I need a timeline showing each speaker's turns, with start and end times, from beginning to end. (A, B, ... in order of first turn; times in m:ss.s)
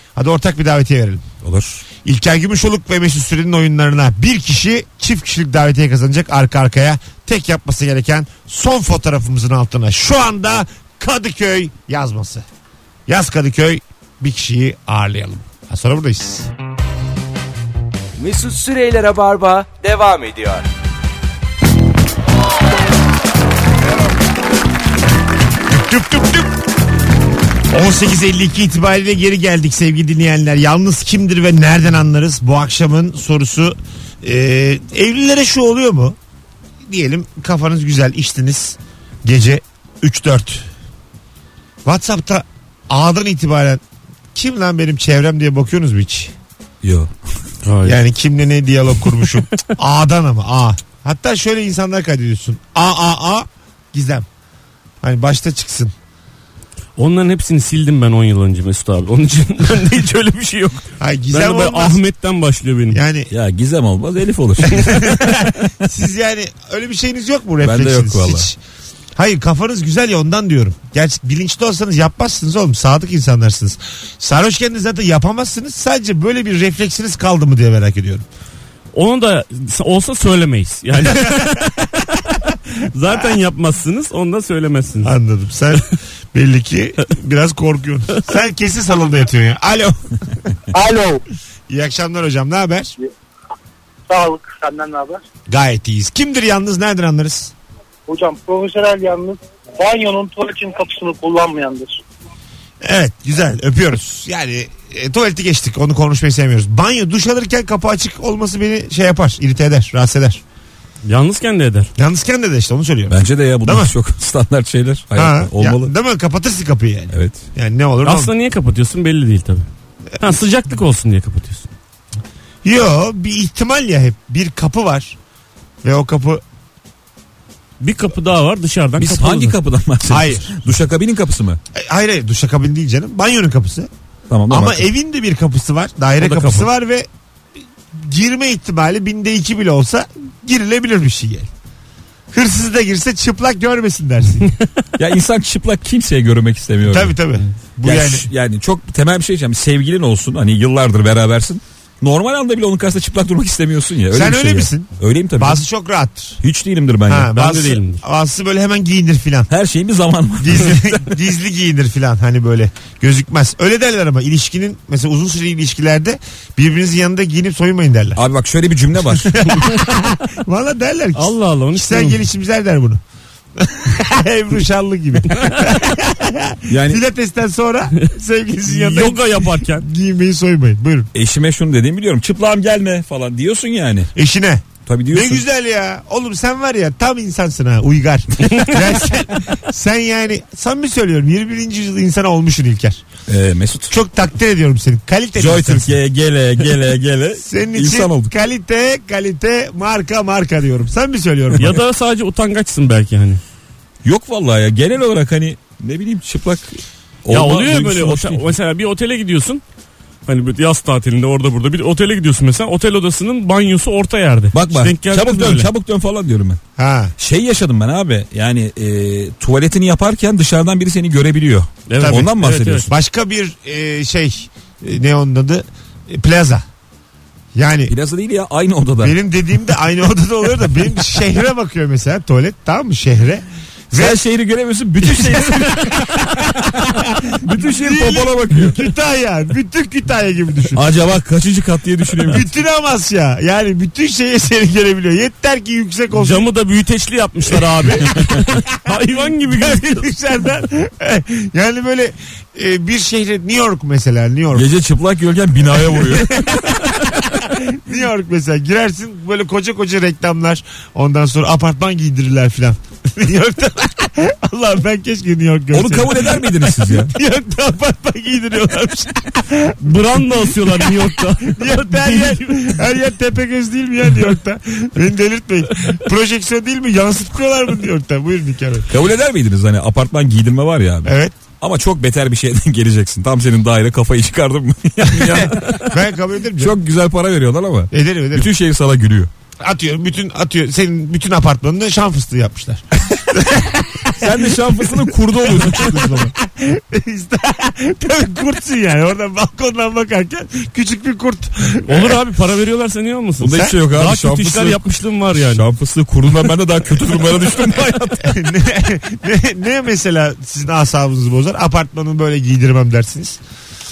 0:00.1-0:01.2 A
0:01.4-0:01.8 B
0:02.0-0:12.4 A
0:13.1-0:16.5 A
0:18.2-0:20.6 C
0:25.7-0:26.6 A
0:27.7-0:36.2 A
0:36.8-0:40.7 A
0:41.8-0:43.8 A
0:44.3-0:46.3 A
0:46.8-0:47.1 B
0:47.6-0:48.0 D
0:47.8-0:54.3 A
0:55.0-0:55.9 A
0:57.0-1:03.0 D
1:01.0-1:02.0 A
1:02.9-1:03.3 A
1:03.3-1:05.5 B
1:04.6-1:08.6 A
1:07.6-1:08.5 B
1:09.2-1:18.2 A
1:18.9-1:22.2 D
1:21.0-1:21.5 A
1:22.9-1:25.1 D
1:25.0-1:30.2 A
1:30.7-1:31.2 E
1:31.7-1:32.9 A
1:34.1-1:35.2 E
1:35.5-1:37.5 A
1:38.1-1:42.0 E
1:42.8-1:50.4 A
1:51.0-1:51.9 D
1:52.0-1:53.9 A
1:53.1-1:55.9 B
1:55.2-1:58.3 A
1:57.1-1:57.4 B
1:58.0-2:01.7 D
2:02.6-2:05.2 A
2:05.8-2:06.4 A
2:07.8-2:09.6 D
2:09.0-2:11.6 B
2:10.1-2:10.5 A
2:11.7-2:13.9 A
2:14.3-2:14.9 B
2:14.5-2:17.1 A
2:16.2-2:16.7 D
2:17.9-2:21.5 A
2:22.3-2:24.5 A
2:25.0-2:27.2 B
2:26.9-2:28.3 A
2:27.8-2:35.6 B
2:34.1-2:36.4 A
2:36.4-2:37.3 B
2:37.1-2:39.5 A
2:37.3-2:38.0 D
2:39.5-2:41.1 B
2:40.4-2:48.2 A
2:48.2-2:49.4 B
2:49.0-2:53.0 A
2:51.2-2:52.2 D
2:53.6-3:01.1 A
2:55.4-2:55.6 D
2:56.7-2:57.0 B
2:58.6-2:59.8 D
3:01.1-3:04.1 B
3:04.1-3:13.0 A
3:04.8-3:05.4 B
3:13.3-3:13.9 B
3:13.9-3:16.0 A
3:15.4-3:18.3 B
3:17.4-3:21.7 A
3:21.6-3:23.4 D
3:24.0-3:28.5 B
3:27.3-3:29.6 D
3:30.2-3:35.7 D
3:34.5-3:36.6 B
3:36.8-3:37.1 A
3:37.2-3:42.9 B
3:41.9-3:42.9 D
3:42.0-3:42.3 A
3:42.9-3:46.6 A
3:47.5-3:47.9 A
3:47.9-3:49.2 B
3:49.0-3:54.2 A
3:53.9-3:58.9 B
3:55.0-4:00.8 A
4:00.7-4:02.5 B
4:02.2-4:06.5 A
4:06.1-4:10.1 D
4:08.8-4:14.7 A
4:14.5-4:16.8 B
4:15.6-4:29.8 A
4:25.7-4:27.1 B
4:29.8-4:32.7 D
4:30.6-4:38.9 A
4:38.9-4:45.9 B
4:41.0-4:41.4 A
4:45.1-4:46.7 A
4:46.6-4:49.3 B
4:47.9-4:48.5 A
4:49.6-5:02.2 A
4:54.1-4:56.3 B
5:01.8-5:05.6 D
5:03.4-5:08.1 B
5:03.5-5:03.7 A
5:07.4-5:08.3 D
5:08.2-5:13.4 A